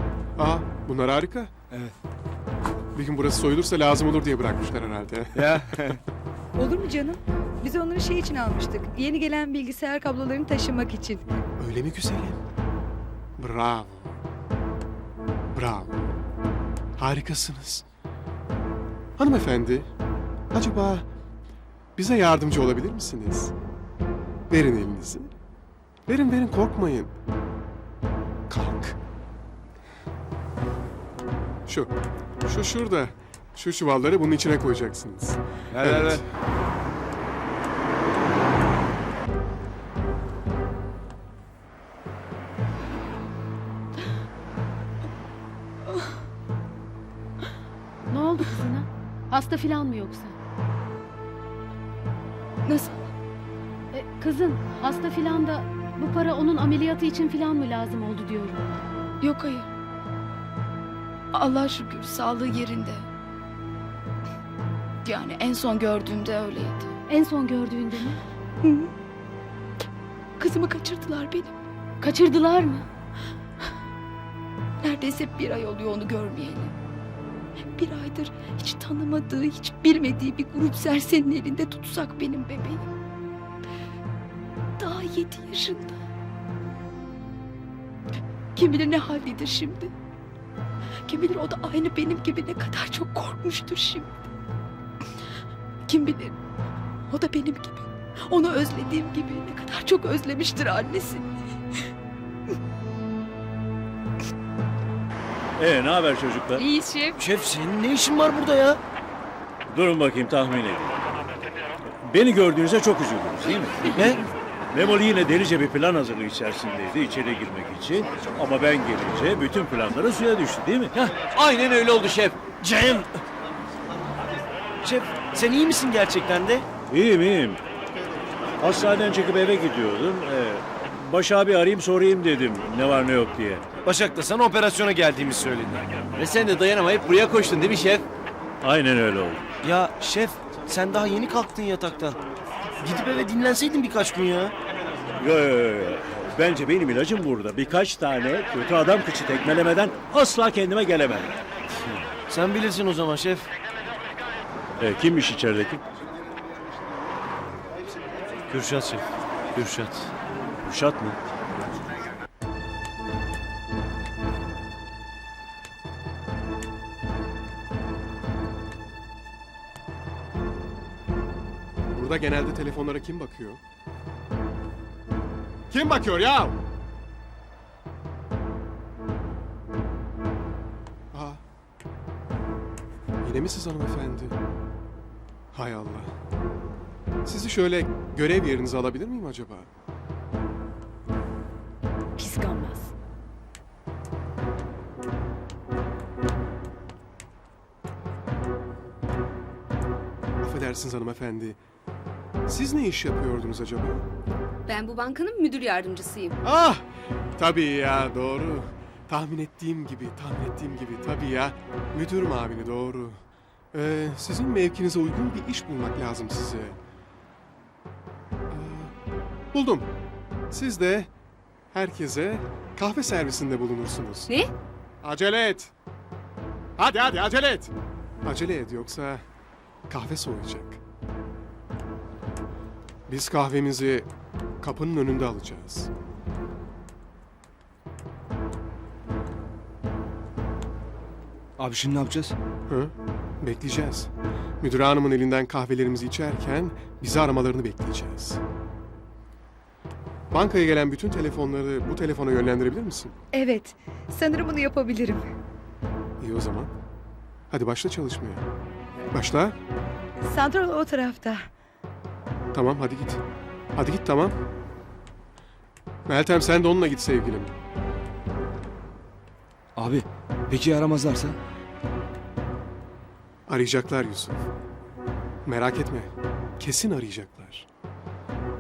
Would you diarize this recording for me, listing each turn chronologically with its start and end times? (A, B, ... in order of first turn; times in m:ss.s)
0:00.4-0:01.5 A
0:03.0-0:06.0 A
0:05.5-0:06.0 B
0:06.6-0:11.3 C
0:11.6-0:12.4 A
0:13.4-0:14.2 A
0:15.5-0:16.1 A
0:17.0-0:17.8 A
0:19.2-0:19.9 A
0:20.5-0:21.1 A
0:22.0-0:23.5 A
0:24.5-0:25.3 A
0:26.1-0:27.2 A
0:28.5-0:29.0 A
0:31.7-0:31.9 A
0:32.5-0:36.3 A
0:48.1-0:50.4 D
0:52.6-0:53.0 E
0:53.9-0:58.7 D
0:59.2-0:59.7 E
1:01.3-1:03.1 E
1:05.0-1:06.9 E
1:07.1-1:08.2 D
1:08.6-1:08.9 E
1:10.4-1:11.6 E
1:12.0-1:12.8 D
1:14.8-1:16.8 E
1:17.8-1:22.9 E
1:24.8-1:26.0 E
1:28.6-1:29.9 E
1:31.1-1:34.1 E
1:35.9-1:36.4 E
1:37.1-1:41.4 E
1:45.6-1:46.7 F
1:46.6-1:47.2 G
1:47.2-1:48.8 H
1:49.7-1:50.9 F
1:52.0-1:53.9 F
1:53.9-1:54.2 H
1:54.7-2:01.4 F
2:02.5-2:03.2 H
2:04.8-2:06.7 H
2:06.9-2:07.6 F
2:08.6-2:13.7 F
2:13.8-2:16.4 H
2:18.6-2:19.5 F
2:19.6-2:22.2 H
2:22.8-2:24.5 H
2:25.2-2:31.3 F
2:31.8-2:33.5 H
2:34.8-2:35.8 F
2:38.5-2:40.1 H
2:40.6-2:41.2 F
2:51.9-2:53.6 A
2:55.7-2:56.6 A
3:01.1-3:01.4 A
3:03.2-3:04.4 A
3:05.5-3:06.1 A
3:07.2-3:09.7 A
3:12.2-3:12.9 D
3:20.4-3:21.6 A
3:22.5-3:24.0 A
3:24.7-3:26.4 G
3:26.4-3:33.2 A
3:33.7-3:36.8 A
3:38.5-3:38.9 A
3:39.5-3:39.9 A
3:40.5-3:41.1 A
3:41.7-3:44.3 A
3:45.0-3:45.7 A
3:46.8-3:47.7 A
3:48.2-3:49.2 A
3:49.9-3:50.8 A
3:53.1-3:54.1 A
3:54.6-3:55.9 A
4:01.6-4:02.4 B
4:02.7-4:04.1 A
4:04.6-4:08.4 A
4:10.3-4:13.2 A
4:13.3-4:15.3 C
4:16.2-4:16.7 A
4:17.5-4:18.4 A
4:19.1-4:19.6 A
4:20.2-4:21.5 C
4:22.5-4:23.2 A
4:23.8-4:24.4 A
4:26.1-4:27.5 A
4:29.8-4:31.4 B
4:33.5-4:34.5 A
4:35.4-4:37.7 A